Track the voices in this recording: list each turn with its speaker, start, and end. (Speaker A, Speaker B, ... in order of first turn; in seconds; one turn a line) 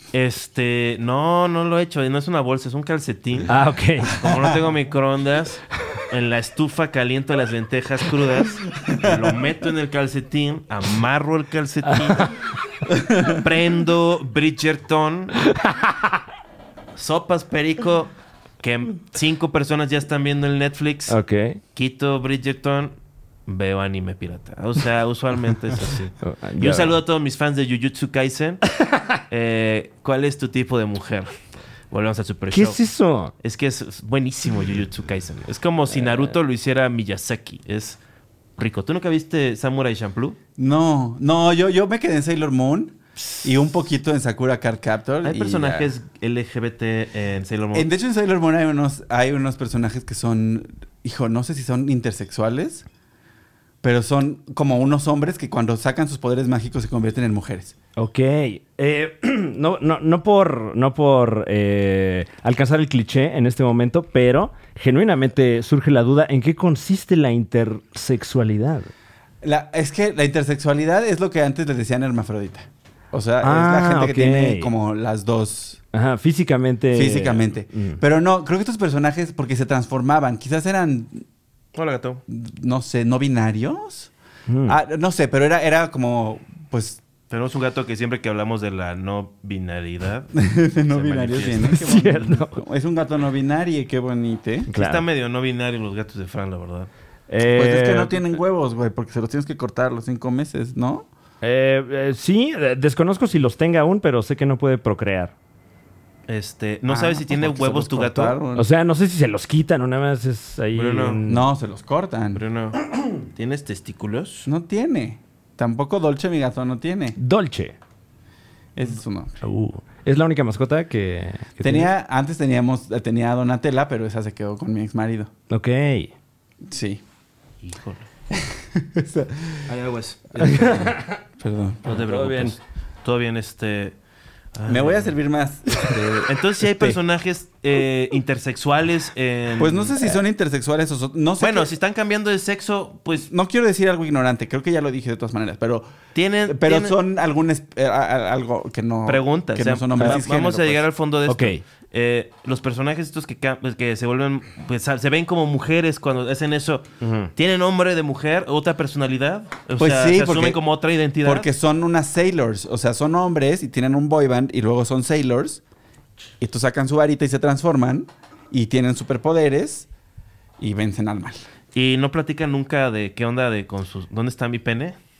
Speaker A: 0.1-12.4
Speaker B: 3.5-4.2
Speaker C: 4.2-4.6
Speaker C: 8.8-9.3
Speaker B: 11.9-12.5
Speaker C: 12.9-13.3
Speaker A: 12.9-15.4
Speaker B: 15.5-16.1
Speaker A: 16.9-21.2
Speaker B: 21.1-21.6
Speaker A: 21.7-22.9
Speaker A: 23.5-28.8
Speaker B: 26.2-27.0
Speaker A: 29.3-31.3
Speaker A: 31.9-32.8
Speaker B: 32.5-33.3
Speaker A: 33.4-38.0
Speaker A: 38.6-40.4
Speaker C: 40.6-45.9
Speaker A: 45.2-47.9
Speaker C: 47.7-52.9
Speaker C: 53.8-57.7
Speaker B: 58.0-68.9
Speaker C: 69.4-75.8
Speaker B: 73.4-74.7
Speaker B: 75.9-78.0
Speaker C: 76.9-81.2
Speaker A: 81.7-82.2
Speaker C: 82.3-84.1
Speaker B: 84.5-84.8
Speaker C: 84.7-87.0
Speaker A: 87.3-90.4
Speaker C: 90.3-94.7
Speaker A: 90.9-91.8
Speaker B: 91.7-92.6
Speaker B: 94.7-95.0
Speaker A: 94.7-96.9
Speaker B: 97.3-98.2
Speaker C: 97.4-101.1
Speaker B: 101.4-105.3
Speaker A: 106.3-108.4
Speaker C: 106.9-108.7
Speaker B: 108.5-111.4
Speaker A: 110.7-111.2
Speaker C: 111.2-112.4
Speaker A: 112.3-114.5
Speaker C: 114.5-117.2
Speaker B: 117.2-117.7
Speaker C: 118.8-119.4
Speaker B: 119.4-121.9
Speaker C: 121.6-125.3
Speaker B: 125.5-126.1
Speaker C: 126.6-127.0
Speaker A: 127.6-128.1
Speaker C: 128.3-129.7
Speaker A: 129.7-130.9
Speaker C: 130.4-131.9
Speaker B: 130.4-131.2
Speaker A: 131.8-133.9
Speaker B: 131.9-132.6
Speaker A: 134.5-135.2
Speaker C: 134.7-137.0
Speaker A: 136.2-140.2
Speaker C: 139.6-141.7
Speaker A: 141.4-143.3
Speaker C: 143.2-145.9
Speaker A: 146.1-146.9
Speaker C: 146.4-150.8
Speaker A: 149.1-161.5
Speaker B: 151.3-151.6
Speaker B: 157.0-157.3
Speaker C: 159.8-160.6
Speaker C: 161.2-165.6
Speaker C: 166.4-169.9
Speaker C: 170.6-171.4
Speaker A: 171.7-174.9